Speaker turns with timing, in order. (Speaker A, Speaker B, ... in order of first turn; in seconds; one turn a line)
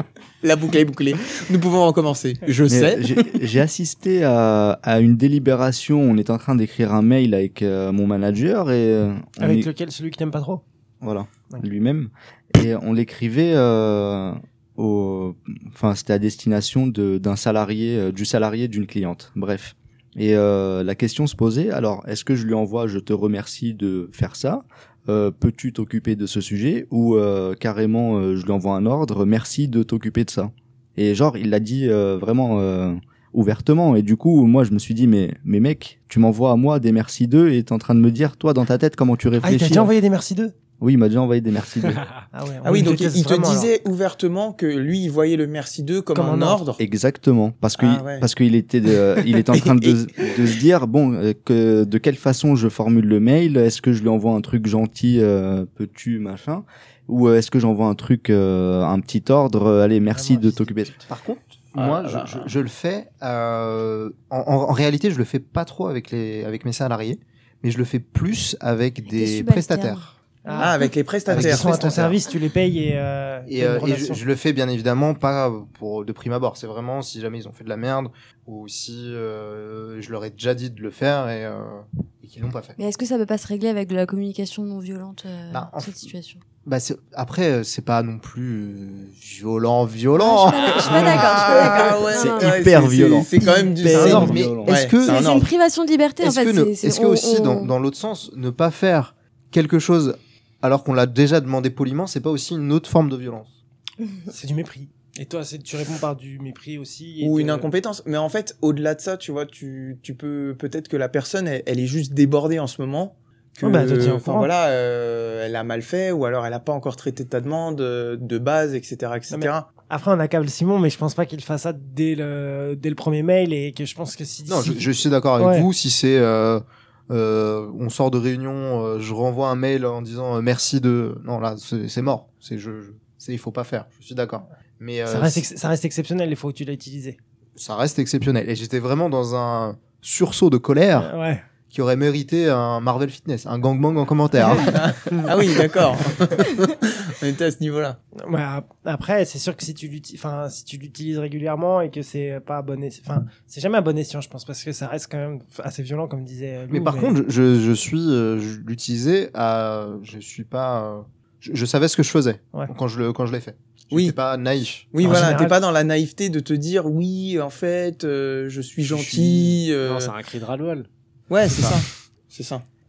Speaker A: 0.4-3.0
Speaker B: 2.7-9.7
Speaker C: 9.4-10.6
Speaker B: 11.0-39.9
Speaker C: 39.4-40.5
Speaker B: 40.8-42.0
Speaker D: 41.8-42.2
Speaker C: 42.3-43.7
Speaker A: 42.6-46.8
Speaker C: 46.1-46.6
Speaker B: 46.8-60.9
Speaker A: 47.8-48.3
Speaker A: 49.3-50.5
Speaker C: 60.1-61.0
Speaker E: 61.1-70.1
Speaker A: 61.8-62.5
Speaker F: 69.1-70.8
Speaker C: 70.5-70.8
Speaker A: 70.6-72.1
Speaker E: 71.3-72.2
Speaker C: 71.3-74.2
Speaker E: 73.5-82.8
Speaker F: 82.8-86.4
Speaker E: 85.5-86.1
Speaker E: 86.6-92.0
Speaker F: 90.2-92.6
Speaker D: 90.8-91.2
Speaker A: 90.8-95.5
Speaker B: 92.2-93.3
Speaker B: 93.8-94.8
Speaker F: 93.9-94.3
Speaker E: 93.9-95.5
Speaker C: 94.0-94.3
Speaker F: 94.9-97.7
Speaker E: 96.2-103.5
Speaker C: 104.3-107.7
Speaker A: 107.2-119.7
Speaker C: 113.6-114.5
Speaker C: 119.3-125.7
Speaker E: 124.5-135.5
Speaker C: 135.1-137.2
Speaker E: 137.6-141.1
Speaker C: 141.0-141.4
Speaker E: 141.7-145.8
Speaker A: 144.7-148.0
Speaker C: 148.2-157.2
Speaker E: 156.7-165.3
Speaker A: 164.9-170.1
Speaker C: 165.0-165.6
Speaker E: 168.9-169.6
Speaker D: 169.8-170.9
Speaker A: 171.3-172.7
Speaker E: 171.5-171.8